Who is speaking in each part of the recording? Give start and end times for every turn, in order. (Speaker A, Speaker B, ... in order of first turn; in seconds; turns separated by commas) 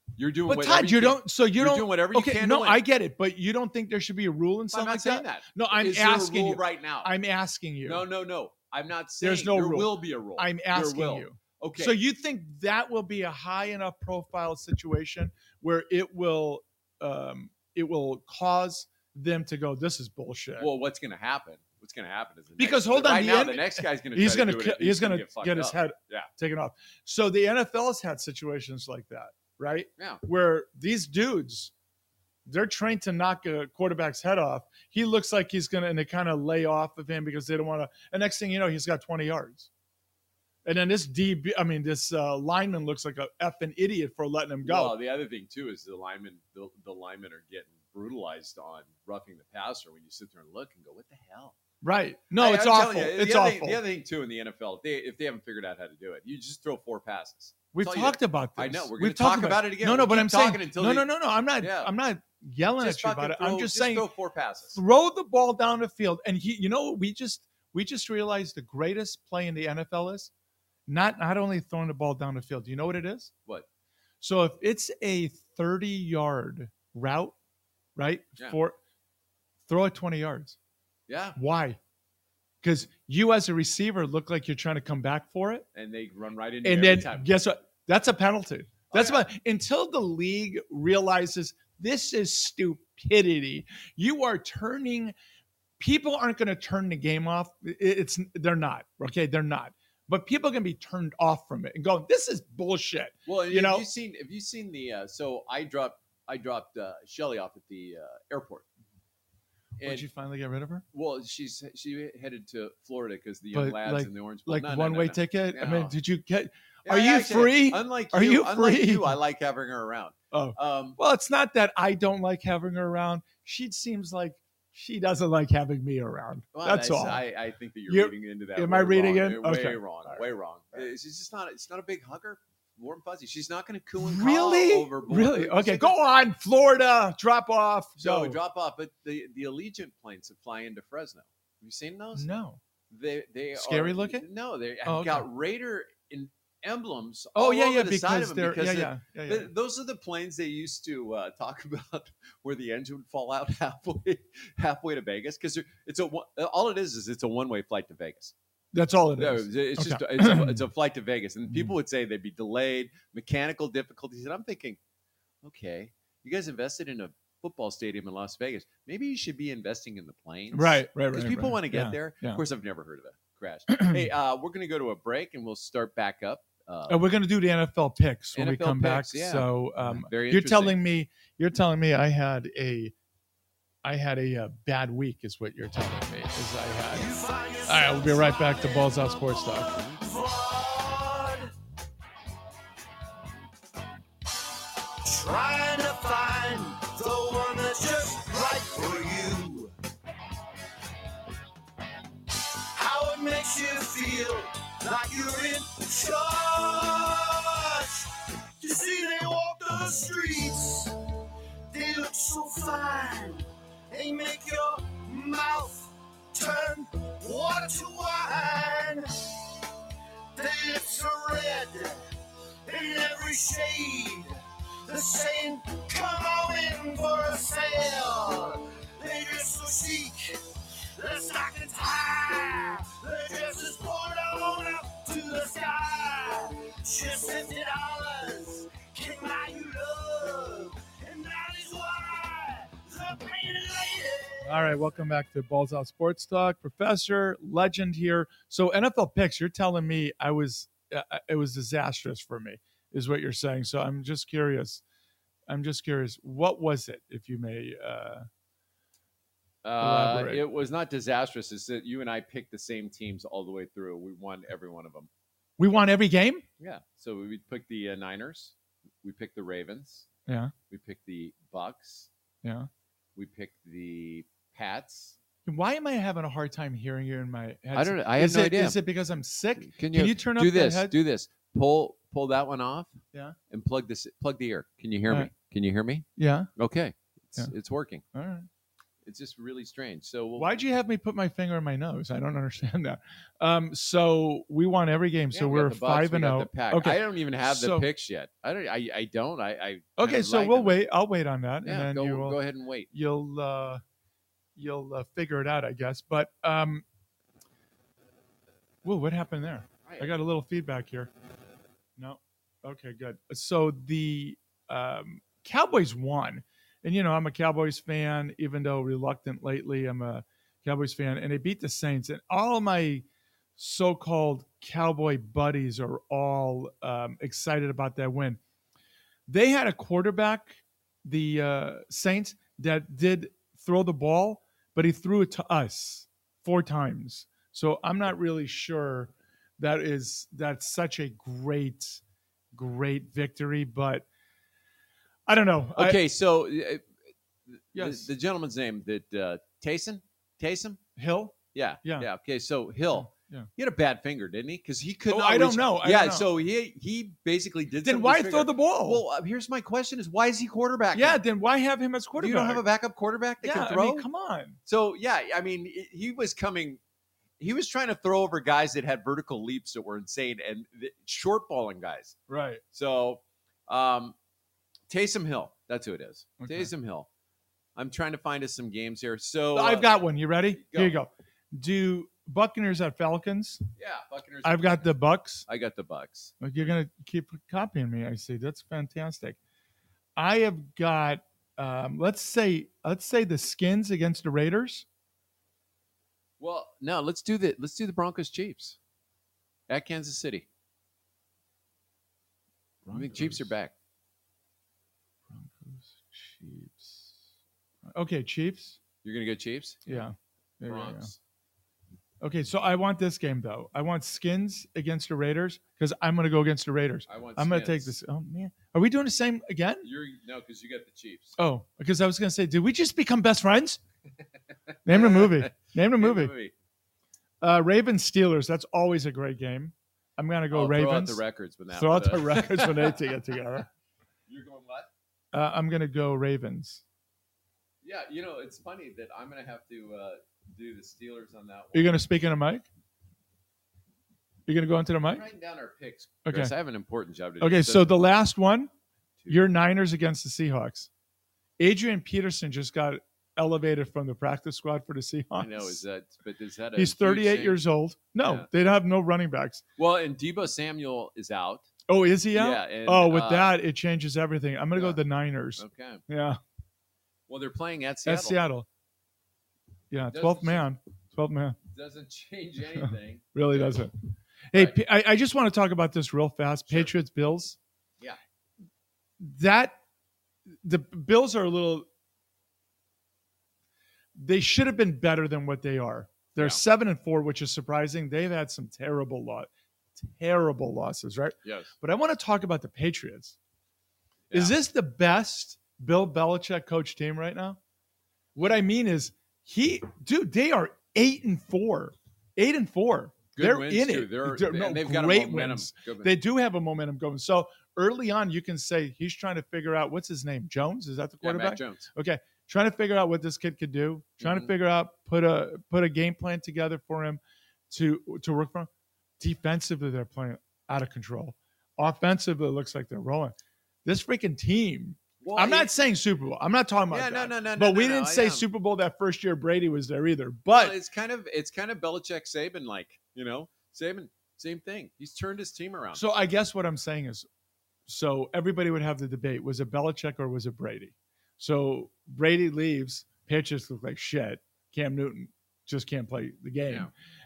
Speaker A: 0.2-2.8, Speaker B: 0.5-8.1, Speaker A: 4.7-7.1, Speaker A: 7.8-12.0, Speaker B: 9.2-20.7, Speaker A: 20.6-26.3, Speaker B: 22.6-31.7, Speaker A: 30.0-30.2, Speaker B: 32.5-39.7, Speaker B: 40.6-45.0, Speaker A: 44.6-51.5, Speaker B: 51.8-53.8, Speaker A: 52.4-61.9, Speaker B: 57.7-64.1, Speaker A: 62.8-64.8, Speaker B: 64.7-70.3, Speaker B: 70.9-73.3, Speaker B: 74.2-77.3, Speaker B: 78.0-78.8, Speaker B: 79.7-80.6, Speaker A: 81.1-81.4, Speaker B: 81.3-81.8, Speaker B: 82.6-85.7, Speaker A: 85.7-87.3, Speaker B: 86.6-95.1, Speaker A: 88.9-89.2, Speaker B: 95.8-103.8, Speaker A: 103.2-108.7, Speaker A: 109.8-110.1, Speaker B: 109.8-110.8, Speaker A: 110.9-115.9, Speaker B: 113.5-119.2, Speaker A: 116.8-121.0, Speaker B: 120.3-127.2, Speaker A: 126.5-135.9, Speaker B: 127.9-130.2, Speaker B: 134.0-138.4, Speaker A: 138.0-142.3, Speaker B: 142.1-142.6, Speaker A: 142.9-158.3, Speaker B: 143.5-144.2, Speaker B: 144.8-145.3, Speaker B: 147.3-149.5, Speaker B: 158.7-160.6, Speaker A: 159.2-164.8, Speaker A: 165.4-177.0, Speaker B: 170.5-172.4, Speaker B: 173.8-174.0, Speaker B: 176.9-182.9, Speaker A: 178.3-180.8, Speaker B: 183.8-187.1, Speaker C: 186.9-191.5, Speaker B: 187.7-189.8, Speaker C: 195.0-199.7, Speaker C: 202.7-210.9, Speaker C: 211.7-219.3, Speaker C: 220.3-222.0, Speaker C: 222.6-230.4, Speaker C: 230.9-244.7, Speaker B: 244.4-254.8, Speaker B: 255.5-258.3, Speaker A: 259.6-265.1, Speaker B: 259.8-260.4, Speaker B: 265.6-266.4, Speaker A: 266.6-270.1, Speaker B: 270.3-270.5, Speaker A: 270.7-272.1, Speaker B: 272.4-272.7, Speaker A: 273.1-275.1, Speaker B: 275.4-280.9, Speaker A: 277.7-278.8, Speaker A: 279.6-288.0, Speaker B: 286.1-286.5, Speaker B: 288.1-288.5, Speaker A: 289.0-290.6, Speaker B: 290.4-297.9, Speaker A: 295.3-300.8, Speaker B: 300.0-302.4, Speaker A: 301.6-302.9, Speaker B: 302.9-303.8, Speaker B: 304.6-306.8, Speaker B: 308.8-311.1, Speaker A: 309.9-310.1, Speaker B: 312.0-323.1, Speaker B: 323.6-328.4, Speaker B: 329.3-342.0, Speaker B: 342.5-344.1, Speaker B: 345.3-346.0, Speaker A: 345.8-346.9, Speaker A: 347.5-350.8, Speaker B: 347.7-348.1, Speaker B: 351.0-352.1, Speaker A: 351.5-361.2, Speaker B: 352.9-353.5, Speaker B: 355.1-356.3, Speaker B: 357.8-359.0, Speaker B: 360.9-362.6, Speaker A: 362.1-364.1, Speaker B: 363.4-364.6, Speaker A: 364.6-366.8, Speaker A: 367.4-372.2, Speaker B: 372.3-372.6, Speaker A: 372.7-374.1, Speaker A: 374.9-377.1, Speaker B: 376.4-376.7, Speaker A: 377.8-379.9, Speaker B: 379.5-383.6, Speaker A: 380.5-381.0, Speaker A: 383.8-386.4, Speaker B: 384.4-385.4, Speaker B: 386.4-389.4, Speaker B: 390.1-394.9, Speaker A: 396.4-398.8, Speaker A: 399.7-400.5, Speaker B: 402.8-403.5, Speaker A: 402.9-403.7, Speaker B: 405.3-407.2, Speaker B: 407.9-408.8, Speaker A: 409.0-410.0, Speaker B: 409.9-411.1, Speaker A: 410.6-411.2, Speaker B: 412.2-419.9, Speaker A: 417.1-417.9, Speaker A: 419.8-421.4, Speaker B: 421.4-423.8, Speaker B: 424.9-426.3, Speaker A: 424.9-426.5, Speaker B: 427.4-433.7, Speaker A: 430.5-433.1, Speaker A: 434.3-434.9, Speaker B: 435.3-436.8, Speaker A: 437.8-442.0, Speaker B: 441.7-442.7, Speaker B: 444.5-445.2, Speaker A: 445.1-448.0, Speaker B: 446.2-446.5, Speaker B: 447.4-448.7, Speaker B: 449.3-450.9, Speaker B: 451.6-455.8, Speaker A: 455.3-457.6, Speaker B: 456.7-459.6, Speaker A: 458.2-458.5, Speaker A: 459.8-461.7, Speaker B: 461.9-466.4, Speaker A: 462.3-463.6, Speaker A: 464.7-465.0, Speaker A: 465.6-466.0, Speaker A: 467.3-468.4, Speaker B: 468.0-468.7, Speaker B: 469.9-471.6, Speaker A: 470.1-470.6, Speaker A: 471.7-473.8, Speaker B: 472.8-473.9, Speaker B: 474.5-477.6, Speaker B: 479.2-479.8, Speaker B: 480.6-481.9, Speaker B: 484.1-493.4, Speaker A: 486.4-486.6, Speaker A: 491.4-491.7, Speaker A: 494.3-494.6, Speaker B: 494.3-497.6, Speaker B: 498.3-518.7, Speaker A: 503.3-506.1, Speaker A: 511.2-511.9, Speaker A: 514.2-514.5, Speaker B: 519.2-530.8, Speaker A: 525.2-525.7, Speaker A: 526.9-528.5, Speaker A: 530.5-536.0, Speaker B: 535.9-537.3, Speaker B: 537.9-546.9